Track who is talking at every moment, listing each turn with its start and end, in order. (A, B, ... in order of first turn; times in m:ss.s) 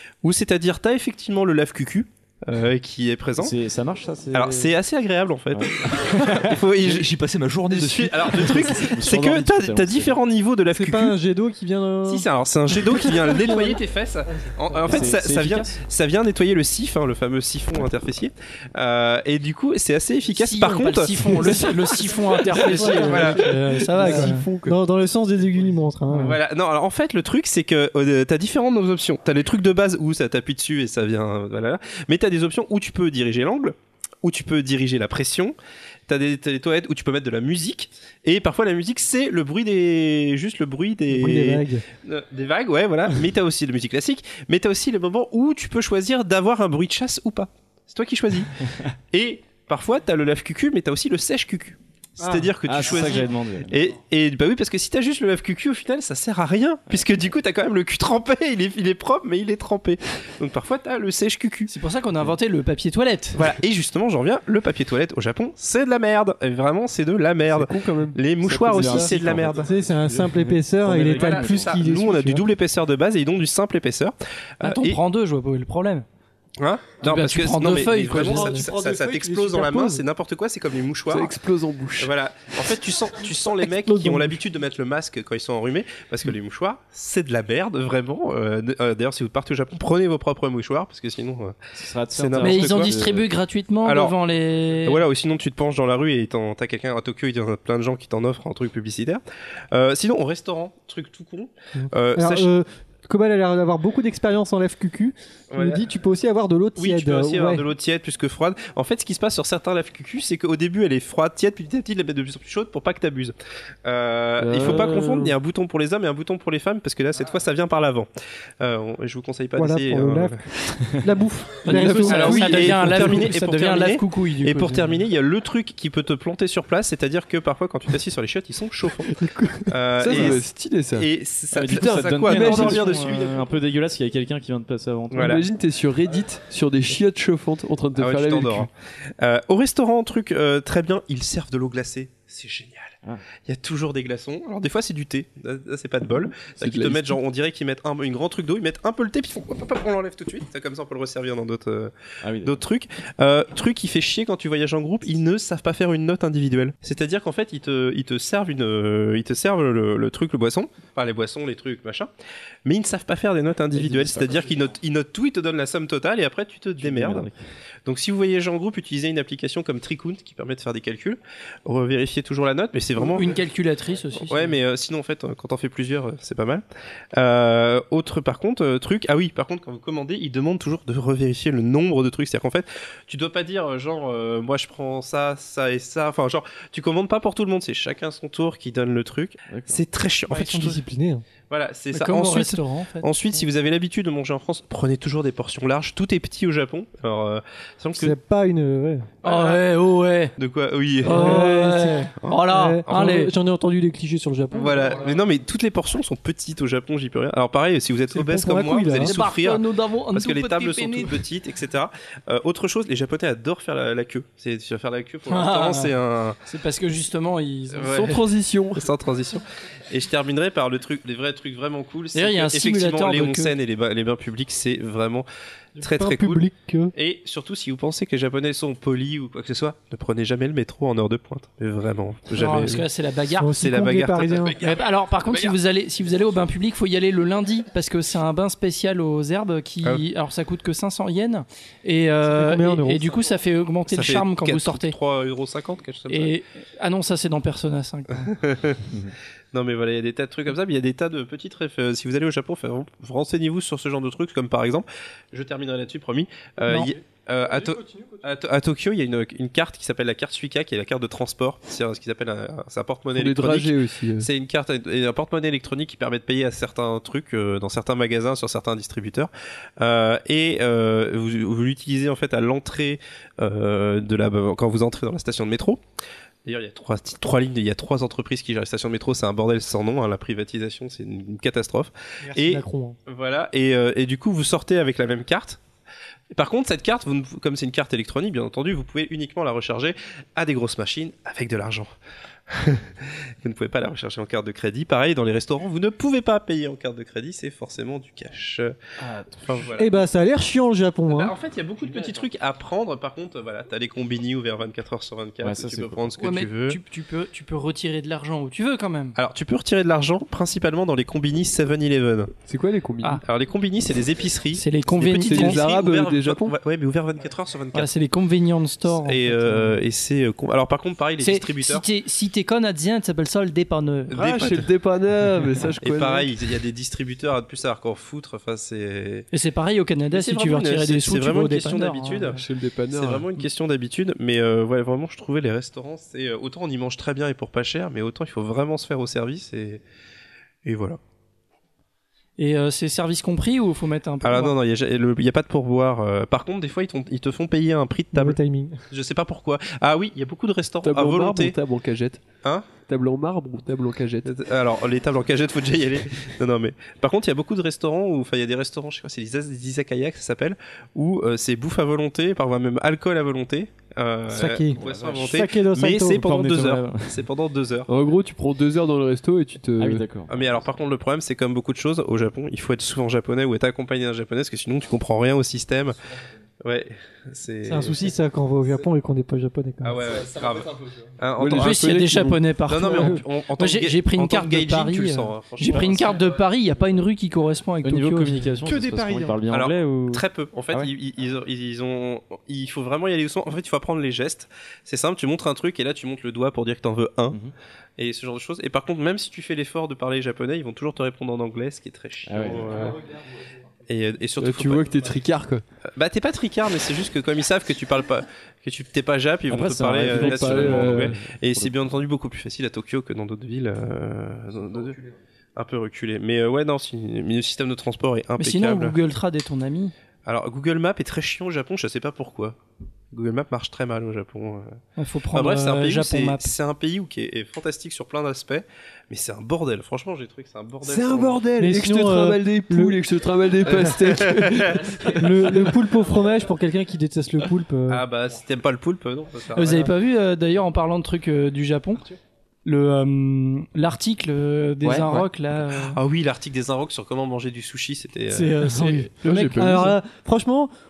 0:00.2-0:03.6 A
0:03.3-0:04.7 B
0:04.3-0:07.1 A
0:05.5-0:06.6 B
0:06.8-0:09.0 C
0:07.7-0:11.2 A
0:08.6-0:10.2 B
0:10.7-0:15.1 D
0:12.0-0:21.6 A
0:14.9-0:15.8 B
0:20.3-0:24.4 E
0:21.4-0:21.7 D
0:22.5-0:23.5 A
0:22.5-0:23.4 D
0:23.5-0:24.8 F
0:24.0-0:26.4 D
0:26.2-0:35.5 A
0:36.1-1:01.7 A
0:41.1-0:41.8 D
0:52.2-0:52.5 D
0:52.6-0:53.8 B
1:01.7-1:03.4 E
1:03.3-1:09.7 A
1:07.5-1:09.3 F
1:08.4-1:10.3 B
1:09.6-1:12.4 D
1:10.8-1:11.6 C
1:10.9-1:15.0 A
1:11.0-1:11.6 B
1:14.6-1:16.0 E
1:16.6-1:21.3 A
1:17.0-1:18.6 E
1:18.1-1:18.7 F
1:18.3-1:20.0 D
1:21.1-1:22.1 F
1:22.0-1:31.6 A
1:23.8-1:24.4 D
1:31.7-1:33.3 B
1:32.1-1:33.0 A
1:32.4-1:35.0 E
1:33.8-1:34.2 A
1:34.8-1:39.2 A
1:39.7-1:42.5 A
1:41.7-1:47.6 D
1:45.5-1:45.8 A
1:46.8-1:58.1 A
1:54.4-1:55.3 F
1:58.6-2:00.4 A
1:59.6-2:00.4 D
2:00.9-2:02.6 D
2:01.6-2:05.0 E
2:01.7-2:03.0 F
2:02.1-2:09.1 A
2:09.1-2:09.7 D
2:09.7-2:13.5 A
2:10.0-2:11.1 F
2:11.5-2:15.4 B
2:11.8-2:12.8 F
2:12.3-2:13.4 E
2:15.1-2:15.4 A
2:15.2-2:18.7 F
2:18.0-2:42.1 A
2:26.6-2:27.2 F
2:32.2-2:32.6 B
2:42.6-2:47.3 A
2:43.7-2:44.5 B
2:46.8-2:47.4 B
2:47.8-2:53.4 A
2:53.0-2:54.6 E
2:54.2-2:56.6 A
2:57.1-3:10.8 A
3:09.5-3:09.8 B
3:10.3-3:11.2 D
3:11.5-3:18.2 A
3:11.9-3:13.1 E
3:18.0-3:19.1 D
3:19.2-3:19.6 A
3:19.2-3:20.3 E
3:20.4-3:21.5 A
3:21.0-3:23.3 E
3:21.0-3:25.0 D
3:22.9-3:23.2 A
3:24.5-3:36.4 A
3:28.1-3:29.2 D
3:28.9-3:31.2 E
3:35.3-3:35.9 E
3:36.4-3:38.1 E
3:37.8-3:38.2 A
3:37.8-3:38.8 F
3:38.7-3:45.3 A
3:42.1-3:43.5 E
3:45.8-3:46.9 D
3:45.8-3:52.8 A
3:52.3-3:53.6 E
3:53.4-3:54.6 D
3:53.6-3:55.6 A
3:54.6-4:05.0 E
4:02.2-4:03.1 D
4:03.9-4:06.3 A
4:06.1-4:08.3 E
4:08.3-4:08.8 A
4:09.5-4:35.8 A
4:17.4-4:18.2 D
4:23.1-4:24.3 F
4:36.4-4:45.6 A
4:42.2-4:43.0 D
4:46.3-4:51.9 A
4:52.5-4:58.8 A
4:59.0-4:59.4 B
4:59.4-4:59.9 A
4:59.8-5:01.3 D
5:01.1-5:06.8 A
5:05.4-5:06.1 B
5:06.2-5:09.2 E
5:09.2-5:12.3 A
5:12.5-5:13.2 F
5:13.2-5:17.9 A
5:14.5-5:15.6 E
5:15.2-5:16.6 F
5:17.7-5:19.8 E
5:18.9-5:21.8 A
5:21.2-5:24.1 E
5:24.1-5:24.7 A
5:24.1-5:26.3 F
5:25.8-5:29.3 A
5:29.3-5:32.4 E
5:30.1-5:39.8 A
5:32.3-5:33.4 F
5:40.6-5:41.0 A
5:42.4-5:44.5 E
5:44.2-5:48.4 A
5:48.1-5:48.8 D
5:48.9-5:51.6 A
5:50.8-5:52.2 F
5:52.4-5:52.7 A
5:52.8-5:54.3 F
5:54.2-6:07.9 A
6:04.3-6:06.4 D
6:04.8-6:05.2 B
6:06.2-6:07.2 B
6:07.9-6:10.0 F
6:09.8-6:10.7 B
6:10.3-6:16.0 A
6:16.6-6:18.1 A
6:17.6-6:20.0 D
6:19.8-6:26.3 A
6:21.4-6:22.4 F
6:21.4-6:28.4 E
6:27.8-6:30.9 B
6:28.6-6:29.4 D
6:29.5-6:37.4 A
6:38.0-6:43.1 A
6:42.2-6:43.0 B
6:43.9-6:44.9 A
6:44.4-6:45.6 F
6:46.0-6:55.0 A
6:49.5-6:51.8 B
6:50.1-6:51.2 F
6:55.6-6:59.0 A
6:58.4-6:59.9 E
7:00.2-7:02.6 A
7:03.1-7:04.8 A
7:05.0-7:06.5 E
7:05.3-7:11.4 A
7:10.8-7:14.8 F
7:11.6-7:13.0 D
7:13.7-7:14.4 D
7:14.0-7:15.3 A
7:15.1-7:18.0 D
7:17.9-7:19.9 A
7:19.5-7:22.0 E
7:22.6-7:26.0 E
7:24.8-7:25.2 C
7:25.7-7:28.6 A
7:28.3-7:29.9 E
7:28.6-7:30.7 D
7:29.2-7:29.9 F